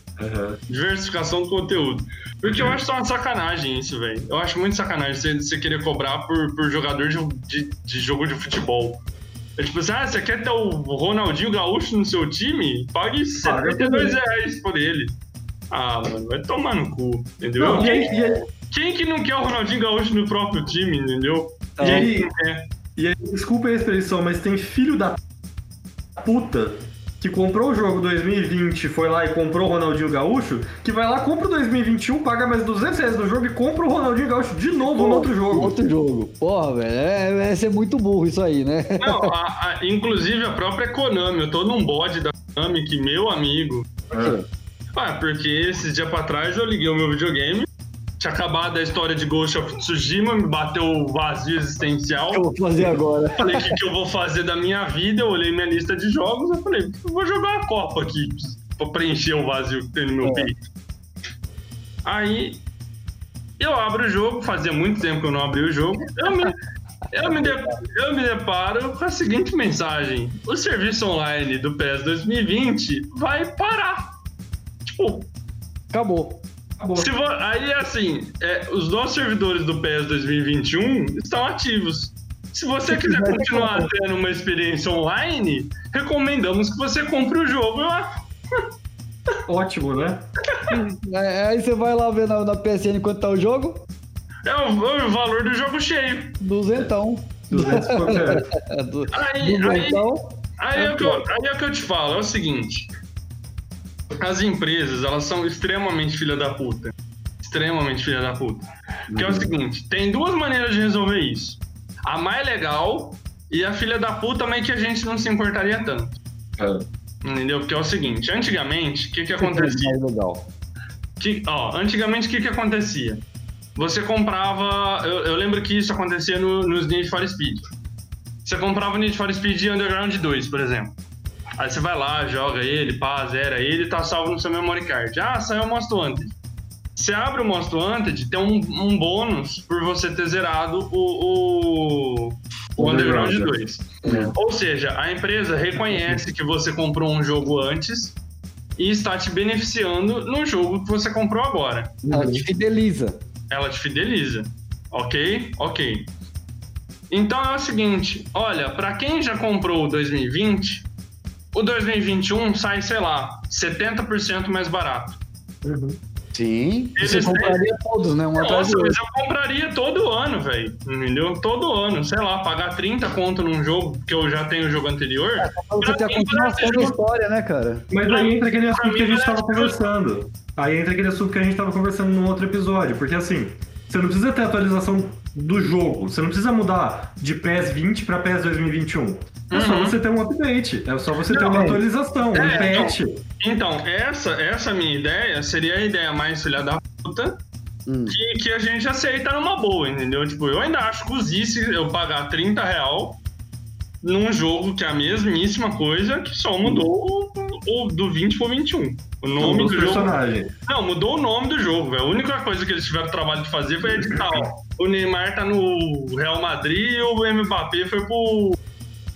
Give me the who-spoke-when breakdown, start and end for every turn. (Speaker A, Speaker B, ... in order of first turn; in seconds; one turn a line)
Speaker A: 0.2-0.6
Speaker B: 0.7-9.0
Speaker A: 2.5-2.8
Speaker B: 9.6-15.2
Speaker A: 13.4-14.2
Speaker B: 15.7-22.7
Speaker A: 17.6-18.4
Speaker C: 21.8-22.1
Speaker A: 21.8-22.3
Speaker A: 22.9-25.2
Speaker A: 26.2-35.7
Speaker C: 34.9-39.3
Speaker B: 39.0-43.9
Speaker C: 44.1-44.5
Speaker A: 44.1-44.4
Speaker B: 44.9-47.7
Speaker B: 48.2-60.6
Speaker C: 52.3-53.8
Speaker C: 60.2-60.5
Speaker B: 62.0-62.6
Speaker B: 63.6-66.6
Speaker B: 67.1-74.1
Speaker C: 67.2-67.7
Speaker B: 74.8-75.3
Speaker C: 75.9-76.4
Speaker A: 76.8-77.1
Speaker B: 77.0-88.6
Speaker C: 82.8-83.9
Speaker A: 89.5-90.2
Speaker C: 90.7-93.8
Speaker B: 94.4-96.4
Speaker C: 96.4-101.2
Speaker A: 97.5-98.5
Speaker B: 99.1-100.0
Speaker B: 100.6-102.9
Speaker B: 104.2-116.2
Speaker A: 109.1-109.5
Speaker A: 116.6-116.8
Speaker B: 117.2-119.9
Speaker C: 119.4-120.5
Speaker B: 121.2-123.2
Speaker B: 123.8-127.6
Speaker B: 128.4-131.0
Speaker B: 131.6-136.3
Speaker B: 136.9-148.2
Speaker A: 142.8-144.3
Speaker C: 144.0-144.3
Speaker A: 145.8-146.2
Speaker B: 148.8-152.0
Speaker A: 152.0-152.4
Speaker C: 152.1-153.2
Speaker B: 153.5-156.1
Speaker B: 157.1-160.9
Speaker B: 161.5-165.2
Speaker A: 165.6-166.0
Speaker C: 166.3-169.0
Speaker B: 167.0-167.6
Speaker B: 168.4-176.9
Speaker C: 175.4-177.8
Speaker A: 177.9-193.2
Speaker B: 178.1-179.8
Speaker B: 189.5-190.0
Speaker B: 191.3-191.7
Speaker C: 191.4-191.8
Speaker B: 192.3-197.4
Speaker C: 197.8-198.2
Speaker B: 198.1-203.2
Speaker B: 204.0-210.1
Speaker A: 209.4-210.5
Speaker B: 210.7-218.6